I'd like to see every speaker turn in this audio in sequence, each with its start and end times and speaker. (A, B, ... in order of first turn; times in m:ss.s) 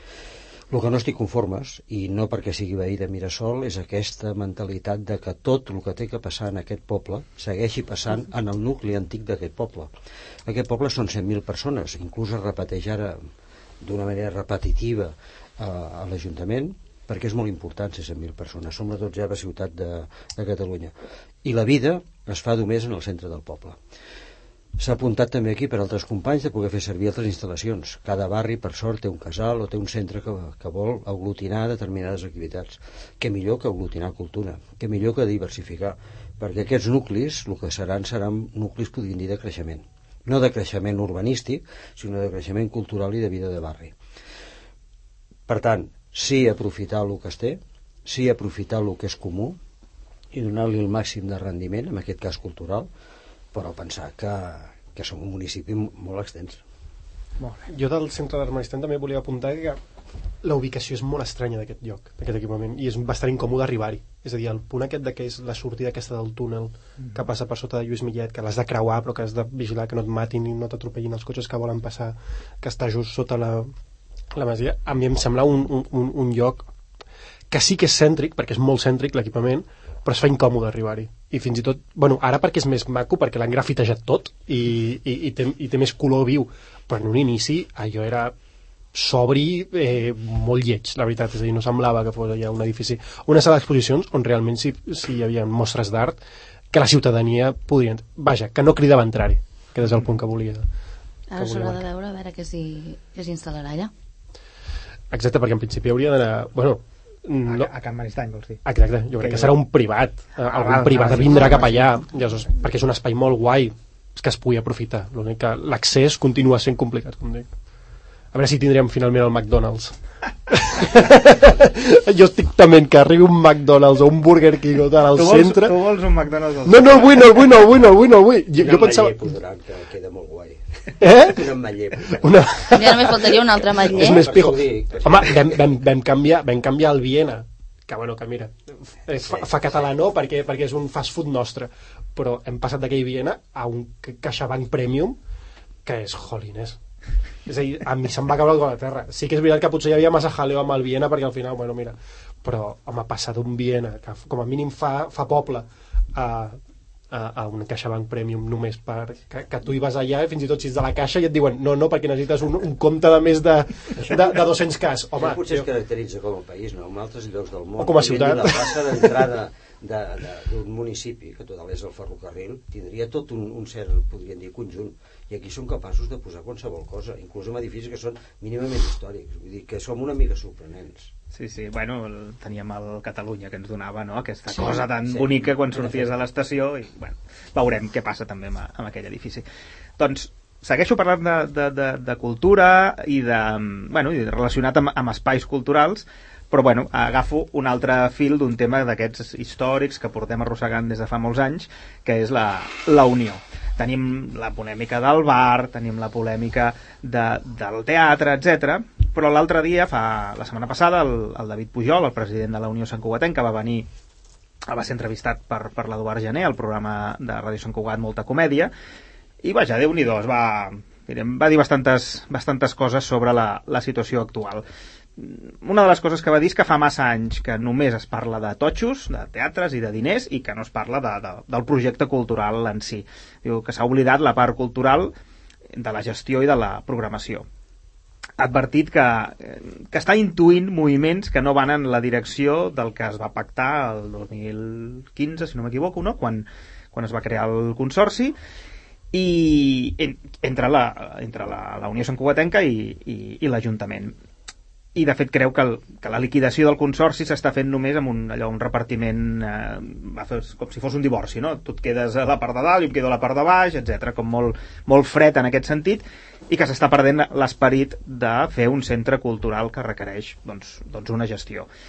0:00.7-0:09.9 A
0:10.4-0:13.2 A
0:13.8-0:20.9 A
0:21.4-0:23.8 A
0:24.8-0:44.0 A
0:45.5-0:49.6 A
0:50.3-0:52.9 A
0:53.5-0:56.6 A
0:57.4-0:57.6 B
0:57.7-0:59.8 C
1:00.4-1:13.7 C
1:14.3-1:16.7 C
1:17.5-1:28.3 C
1:28.9-1:36.2 C
1:36.7-1:40.7 C
1:41.3-1:43.9 D
1:41.4-1:41.8 C
1:45.1-1:47.7 C
1:47.5-1:48.6 B
1:48.6-1:57.5 C
1:49.2-1:49.6 B
1:50.4-1:52.0 B
1:58.3-2:00.0 C
2:00.5-2:05.8 C
2:05.1-2:07.4 B
2:06.6-2:09.2 C
2:08.6-2:12.2 A
2:11.0-2:13.3 C
2:12.7-2:14.2 D
2:13.9-2:25.2 C
2:13.9-2:15.4 A
2:25.8-2:26.8 C
2:27.4-2:36.6 C
2:37.1-2:45.6 C
2:45.2-3:01.1 A
2:47.8-2:49.2 C
3:01.3-3:09.4 B
3:04.5-3:06.1 A
3:10.0-3:33.9 B
3:34.7-3:38.7 B
3:39.4-3:44.6 B
3:45.2-3:55.1 B
3:55.7-3:57.4 B
3:58.4-4:08.4 B
4:09.1-4:14.2 B
4:14.9-4:31.7 B